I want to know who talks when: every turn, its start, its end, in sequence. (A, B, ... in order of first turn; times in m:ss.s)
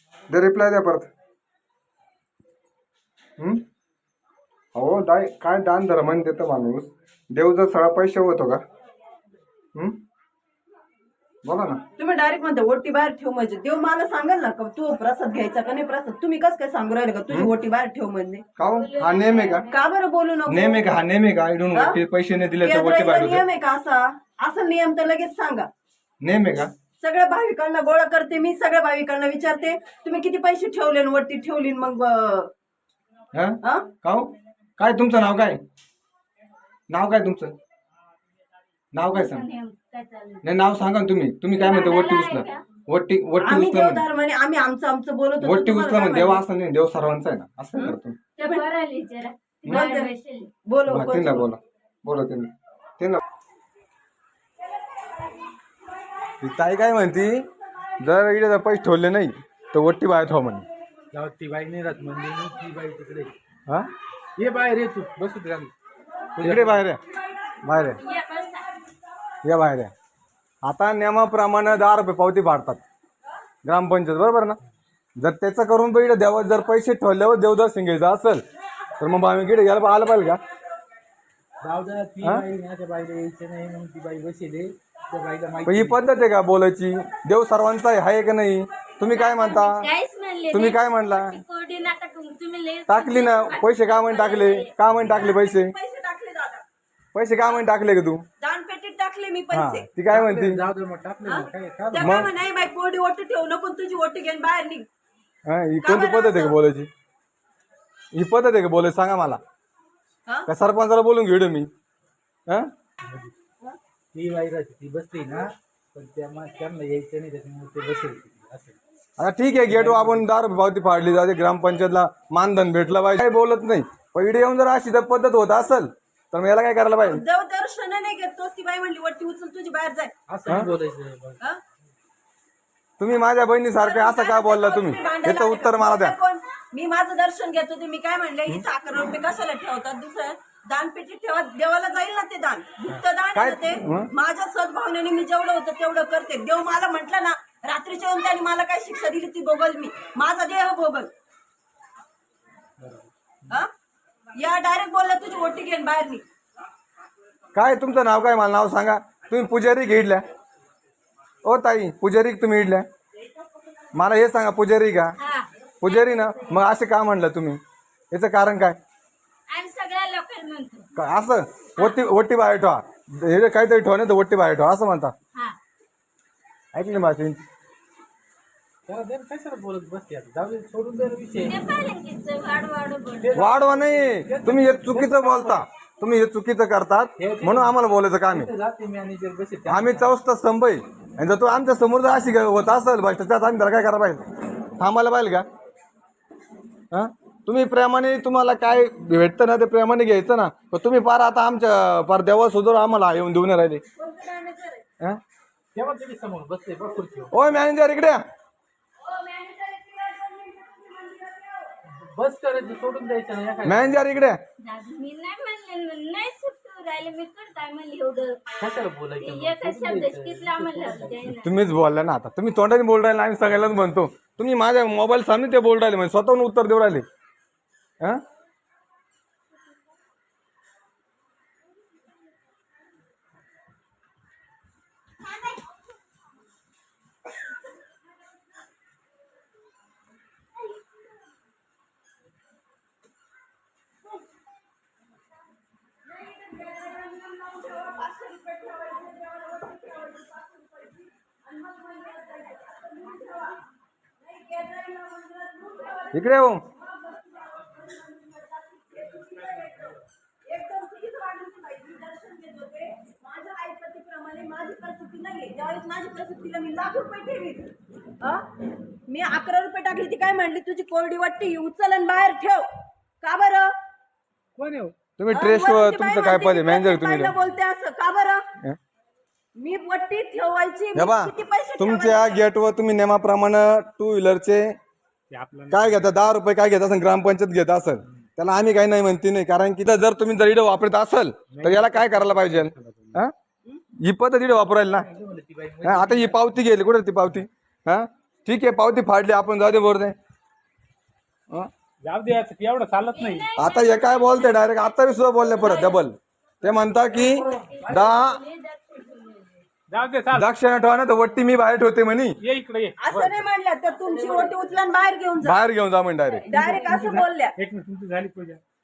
0:00.3-0:01.1 A
0:03.4-0:03.6 A
0:04.7-0:08.6 A
0:11.4-0:11.8 A
0:12.0-0:18.4 B
0:18.6-0:19.6 A
0:18.7-0:19.8 C
0:19.7-0:21.0 B
0:20.5-0:23.4 A
0:22.6-0:25.7 B
0:26.2-0:26.7 A
0:27.0-0:32.5 B
0:33.3-0:35.6 A
0:33.6-0:33.9 B
0:36.9-0:37.6 A
0:38.9-0:39.5 A
0:39.1-0:40.4 C
0:40.4-0:44.0 A
0:41.5-0:42.6 C
0:43.4-0:46.4 B
0:45.4-0:48.2 A
0:47.8-0:48.6 B
0:48.4-0:50.5 C
0:49.7-0:50.1 B
0:50.6-0:51.5 B
0:50.9-0:53.2 A
0:56.4-0:57.5 A
0:58.0-1:00.7 A
1:01.1-1:03.3 D
1:04.4-1:05.7 D
1:06.4-1:06.8 D
1:06.4-1:07.0 A
1:07.6-1:08.0 A
1:07.9-1:08.6 C
1:09.4-1:09.9 A
1:10.6-1:12.8 A
1:13.6-1:14.6 A
1:15.2-1:18.4 A
1:19.0-1:20.4 A
1:21.6-1:26.0 D
1:25.6-1:29.9 A
1:29.1-1:34.7 C
1:30.5-1:31.4 A
1:32.9-1:35.7 A
1:35.1-1:36.6 B
1:37.1-1:38.2 A
1:38.4-1:39.9 B
1:39.5-1:40.6 A
1:40.1-1:42.3 D
1:41.2-1:44.8 B
1:42.0-1:42.3 A
1:45.4-1:46.9 A
1:45.8-1:46.6 B
1:48.1-1:49.4 A
1:50.5-1:51.7 A
1:53.0-1:53.3 D
1:54.1-1:58.8 D
1:59.2-2:07.2 A
1:59.7-2:00.3 D
2:07.0-2:10.1 B
2:10.3-2:11.4 D
2:13.0-2:16.2 A
2:13.8-2:31.1 B
2:23.3-2:24.1 A
2:32.8-2:33.1 D
2:34.4-2:36.2 B
2:37.5-2:40.2 A
2:41.4-2:42.8 A
2:43.9-2:45.2 A
2:45.2-2:46.6 C
2:45.8-2:48.8 A
2:49.5-2:50.9 C
2:51.0-2:55.1 A
2:56.7-2:57.4 A
2:58.9-3:01.6 D
3:01.4-3:03.4 C
3:03.2-3:05.6 D
3:03.3-3:08.5 A
3:07.2-3:10.2 D
3:09.6-3:14.2 A
3:14.8-3:15.4 A
3:16.9-3:23.8 A
3:24.0-3:24.8 B
3:25.7-3:27.4 D
3:27.3-3:28.2 A
3:29.5-3:29.9 B
3:31.9-3:34.2 D
3:33.6-3:34.4 A
3:34.6-3:38.4 C
3:38.6-3:41.4 D
3:39.2-3:41.5 C
3:41.4-3:47.0 A
4:06.8-4:13.6 B
4:14.2-4:27.7 B
4:16.1-4:16.6 A
4:29.1-4:32.6 B
4:33.2-4:33.7 B
4:34.6-4:34.9 D
4:35.2-4:37.3 A
4:35.3-4:38.4 B
4:39.6-4:42.4 B
4:40.9-4:44.7 A
4:45.3-4:46.0 E
4:45.7-4:53.3 A
4:51.5-4:53.1 D
4:54.0-4:55.1 A
4:54.9-4:56.7 D
4:55.8-5:00.1 A
5:02.0-5:03.5 E
5:03.1-5:04.6 C
5:03.6-5:08.4 A
5:05.5-5:06.0 C
5:07.2-5:09.6 C
5:09.9-5:10.4 E
5:10.3-5:12.4 A
5:12.4-5:13.4 E
5:13.0-5:15.6 B
5:14.1-5:14.7 C
5:15.4-5:16.5 A
5:16.5-5:17.5 B
5:16.5-5:17.1 C
5:16.7-5:18.6 E